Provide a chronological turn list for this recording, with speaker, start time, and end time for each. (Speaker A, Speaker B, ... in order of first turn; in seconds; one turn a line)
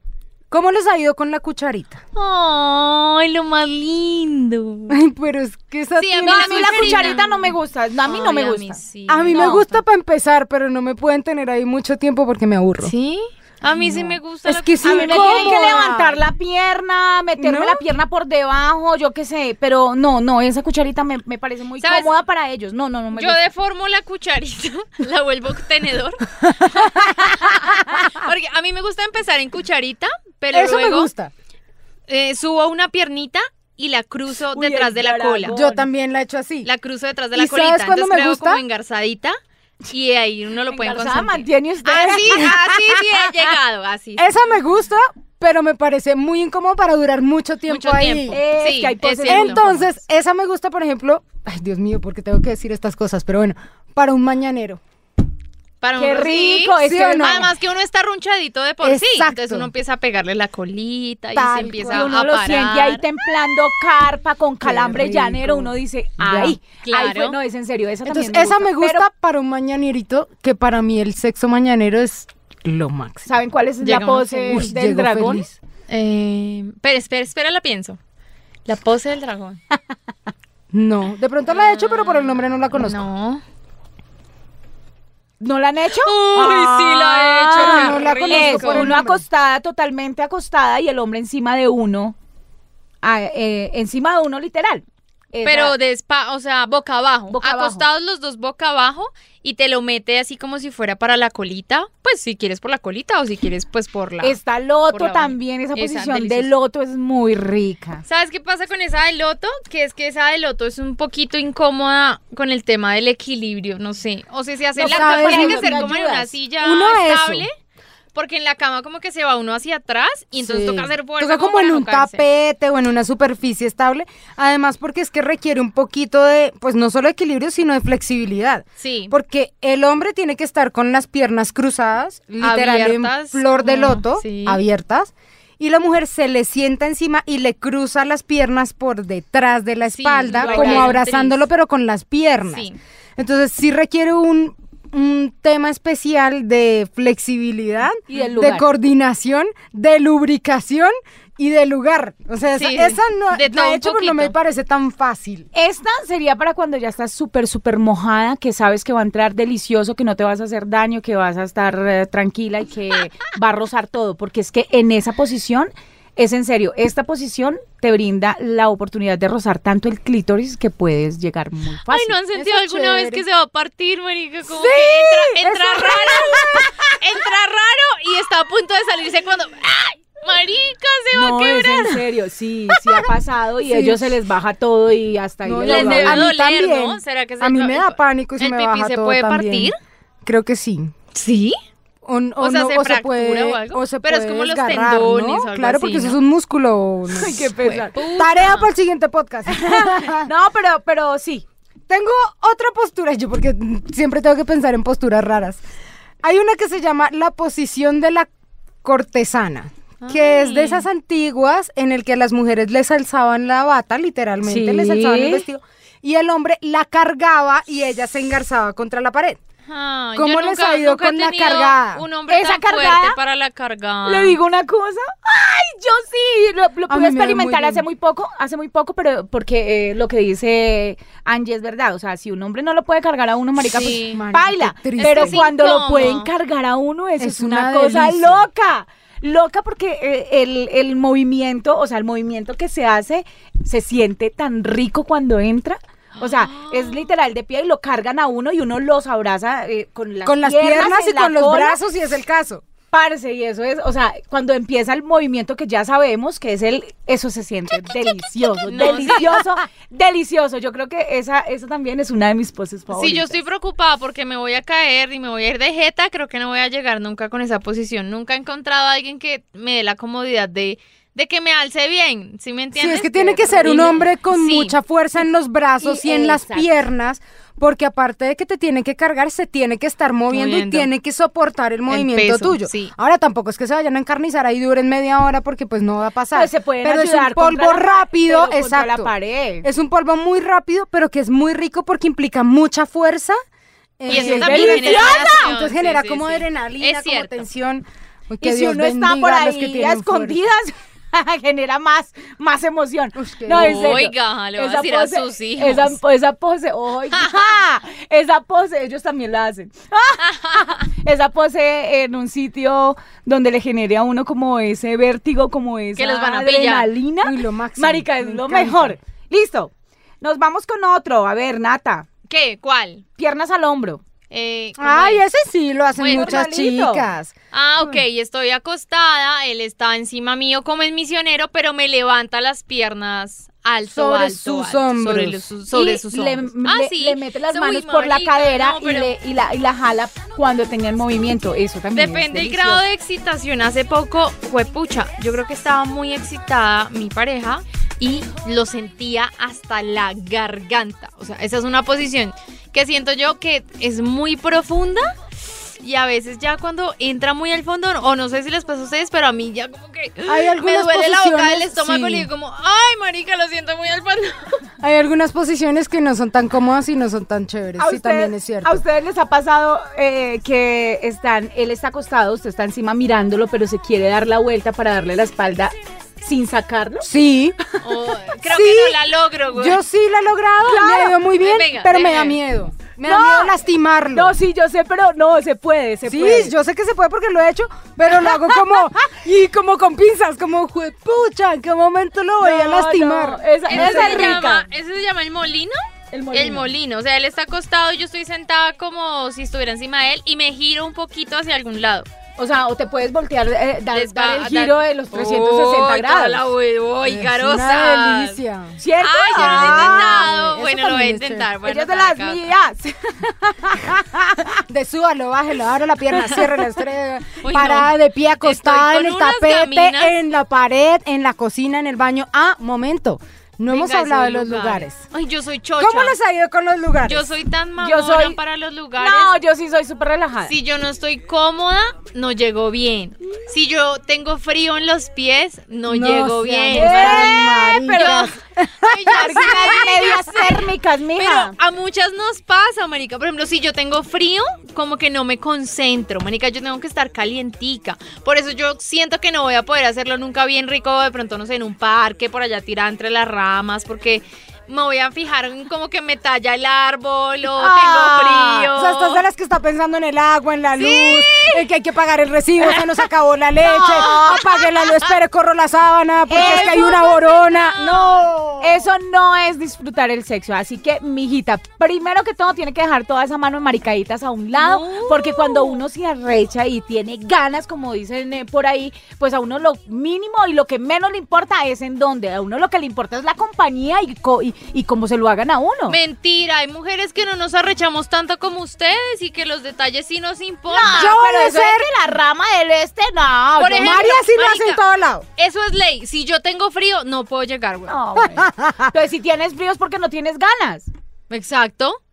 Speaker A: 0.5-2.0
Speaker B: 2.1-5.0
Speaker A: 4.9-7.2
Speaker B: 6.0-9.8
Speaker C: 6.2-8.8
Speaker A: 9.1-12.9
Speaker C: 9.3-9.6
Speaker B: 12.8-16.2
Speaker A: 13.8-15.9
Speaker C: 14.8-23.4
Speaker A: 17.4-17.8
Speaker B: 21.8-22.1
Speaker B: 23.1-31.1
Speaker A: 30.5-31.3
Speaker B: 32.1-35.5
Speaker C: 34.5-35.9
Speaker A: 35.5-36.7
Speaker B: 36.6-39.4
Speaker A: 37.3-38.6
Speaker B: 39.9-44.3
Speaker C: 40.7-42.7
Speaker A: 42.2-42.6
Speaker A: 44.2-48.4
Speaker B: 47.7-49.6
Speaker C: 48.3-49.9
Speaker A: 49.2-54.8
Speaker B: 55.8-63.0
Speaker C: 56.0-57.5
Speaker A: 56.8-57.5
Speaker A: 58.8-59.7
Speaker A: 61.3-62.1
Speaker C: 61.9-69.1
Speaker A: 64.6-66.6
Speaker B: 66.8-67.4
Speaker A: 68.0-73.3
Speaker C: 73.2-75.5
Speaker B: 73.8-74.7
Speaker A: 74.5-75.5
Speaker B: 75.9-78.0
Speaker B: 78.7-79.6
Speaker A: 80.7-83.0
Speaker B: 81.5-83.4
Speaker C: 85.4-92.1
Speaker B: 86.0-89.0
Speaker A: 87.5-89.2
Speaker C: 93.0-95.7
Speaker B: 95.4-104.4
Speaker C: 97.3-97.9
Speaker C: 104.2-108.0
Speaker B: 104.9-106.5
Speaker B: 108.0-117.5
Speaker C: 114.8-116.3
Speaker A: 114.8-115.9
Speaker A: 116.6-117.5
Speaker B: 118.1-122.2
Speaker A: 120.4-155.5
Speaker B: 128.8-129.1
Speaker B: 132.4-134.6
Speaker B: 139.9-141.4
Speaker C: 140.3-141.0
Speaker B: 142.5-142.8
Speaker C: 148.1-148.7
Speaker B: 152.5-154.3
Speaker C: 155.5-172.1
Speaker B: 171.9-182.0
Speaker A: 172.3-173.2
Speaker C: 174.5-175.3
Speaker A: 175.3-176.7
Speaker C: 181.1-186.2
Speaker A: 183.6-184.1
Speaker A: 185.4-189.7
Speaker B: 185.6-189.8
Speaker A: 190.2-190.9
Speaker B: 191.1-191.6
Speaker A: 192.0-197.4
Speaker B: 192.4-196.2
Speaker C: 197.1-198.0
Speaker B: 197.6-198.7
Speaker A: 198.0-200.3
Speaker C: 199.5-201.4
Speaker A: 201.9-205.6
Speaker A: 206.2-208.3
Speaker A: 208.8-219.4
Speaker B: 210.0-210.8
Speaker C: 214.4-215.4
Speaker B: 219.7-224.4
Speaker A: 220.2-222.0
Speaker C: 222.3-223.2
Speaker C: 224.1-251.8
Speaker A: 226.9-227.8
Speaker B: 233.6-234.2
Speaker A: 234.0-235.4
Speaker B: 234.9-236.3
Speaker A: 237.2-238.4
Speaker B: 246.2-247.1
Speaker A: 250.2-252.6
Speaker C: 252.9-263.4
Speaker B: 258.6-259.4
Speaker B: 262.9-274.8
Speaker A: 272.8-289.1
Speaker C: 273.6-274.0
Speaker C: 275.8-276.7
Speaker B: 280.3-280.9
Speaker B: 281.9-282.9
Speaker C: 286.3-289.7
Speaker A: 289.6-293.4
Speaker A: 294.0-300.4
Speaker C: 294.1-295.5
Speaker B: 294.1-297.4
Speaker C: 298.4-322.1
Speaker A: 303.1-304.0
Speaker B: 303.5-305.9
Speaker B: 307.1-307.5
Speaker B: 315.9-316.9
Speaker A: 317.2-319.0
Speaker B: 322.3-323.0
Speaker C: 323.2-324.0
Speaker B: 324.3-325.2
Speaker A: 324.8-328.0
Speaker B: 326.0-326.4
Speaker C: 326.1-327.1
Speaker B: 327.5-339.1
Speaker A: 333.9-335.4
Speaker C: 335.7-342.8
Speaker B: 341.9-355.1
Speaker B: 355.8-364.6
Speaker A: 360.3-362.3
Speaker A: 364.8-368.8
Speaker C: 367.8-377.1
Speaker A: 377.0-377.6
Speaker B: 377.8-379.8
Speaker A: 378.4-379.0
Speaker A: 379.5-384.4
Speaker C: 380.6-381.1
Speaker B: 381.4-382.4
Speaker C: 383.0-383.6
Speaker C: 384.1-386.5
Speaker A: 386.1-394.5
Speaker C: 388.2-388.5
Speaker C: 392.4-394.6
Speaker B: 393.7-395.8
Speaker C: 396.1-396.7
Speaker B: 396.3-402.1
Speaker C: 402.4-406.5
Speaker B: 403.9-408.4
Speaker A: 407.0-408.8
Speaker C: 408.8-410.3
Speaker B: 409.0-412.5
Speaker A: 409.3-411.5
Speaker C: 411.6-414.6
Speaker A: 414.7-425.0
Speaker B: 417.4-420.1
Speaker B: 423.7-426.1
Speaker A: 425.8-427.3
Speaker B: 427.0-429.3
Speaker C: 427.8-428.4
Speaker C: 429.0-430.5
Speaker B: 430.4-459.2
Speaker A: 435.9-439.8
Speaker C: 436.7-438.3
Speaker C: 439.1-441.5
Speaker C: 457.6-458.7
Speaker A: 458.7-468.8
Speaker B: 460.8-461.4
Speaker C: 463.6-464.5
Speaker C: 466.3-467.1
Speaker B: 466.3-468.3
Speaker C: 468.6-486.0
Speaker B: 474.5-475.8
Speaker B: 485.9-491.1
Speaker C: 490.7-494.1
Speaker A: 490.9-491.9
Speaker B: 493.6-494.8
Speaker A: 493.8-495.2
Speaker B: 495.4-497.9
Speaker C: 497.9-500.9
Speaker A: 498.2-498.9
Speaker B: 501.3-502.0